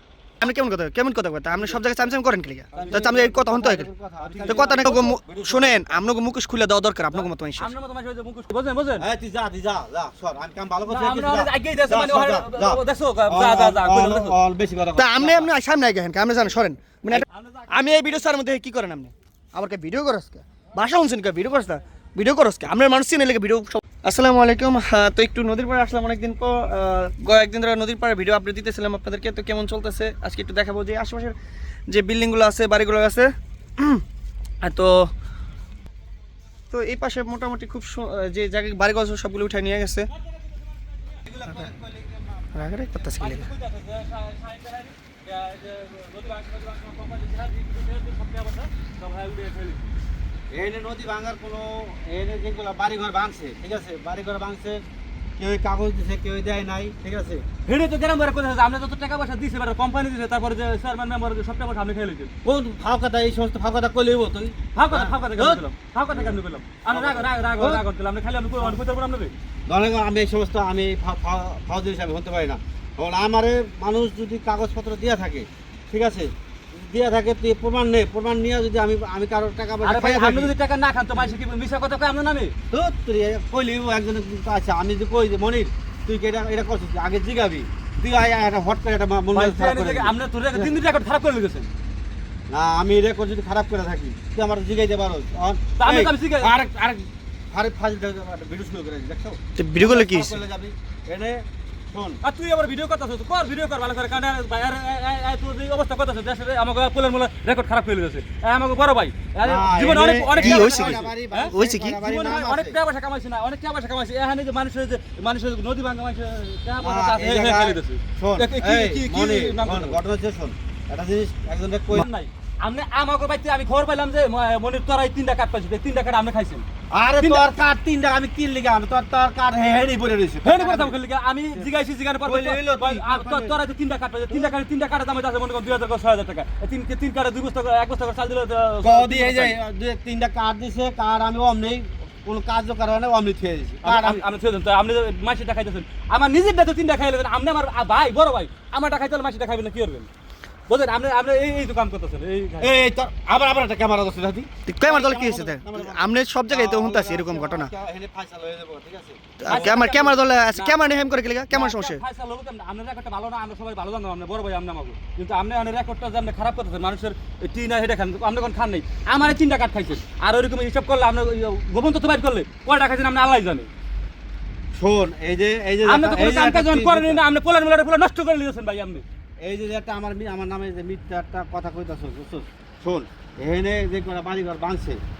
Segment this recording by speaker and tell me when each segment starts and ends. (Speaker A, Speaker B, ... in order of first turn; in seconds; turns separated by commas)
Speaker A: 0.4-3.9, Speaker B: 2.7-6.0, Speaker C: 2.7-3.1, Speaker C: 4.2-5.1, Speaker A: 4.5-7.7, Speaker C: 7.1-9.1, Speaker B: 9.0-15.5, Speaker C: 10.9-14.4, Speaker A: 14.9-31.4, Speaker C: 17.1-18.4, Speaker A: 31.9-34.0, Speaker A: 34.6-35.1, Speaker A: 36.7-40.1, Speaker C: 40.1-41.2, Speaker B: 41.2-42.6, Speaker A: 42.5-43.5, Speaker C: 43.0-49.9, Speaker B: 50.5-54.8, Speaker B: 55.4-57.5, Speaker C: 57.6-62.3, Speaker B: 62.4-67.8, Speaker C: 64.7-69.3, Speaker B: 69.7-80.5, Speaker C: 79.8-82.5, Speaker B: 82.7-90.8, Speaker C: 89.3-91.7, Speaker B: 92.5-102.2, Speaker C: 95.8-96.6, Speaker A: 99.5-100.4, Speaker C: 102.2-120.0, Speaker B: 109.4-112.8, Speaker A: 110.3-112.0, Speaker B: 116.8-122.1, Speaker C: 121.9-126.7, Speaker B: 126.9-131.0, Speaker C: 127.2-127.5, Speaker C: 130.4-139.6, Speaker B: 132.2-133.6, Speaker B: 138.8-144.2, Speaker C: 143.8-150.1, Speaker C: 150.7-152.7, Speaker B: 152.6-159.7, Speaker A: 154.7-157.7, Speaker A: 159.4-162.0, Speaker C: 159.4-160.8, Speaker C: 161.5-173.7, Speaker B: 174.7-177.2, Speaker C: 175.8-179.0, Speaker B: 179.4-185.0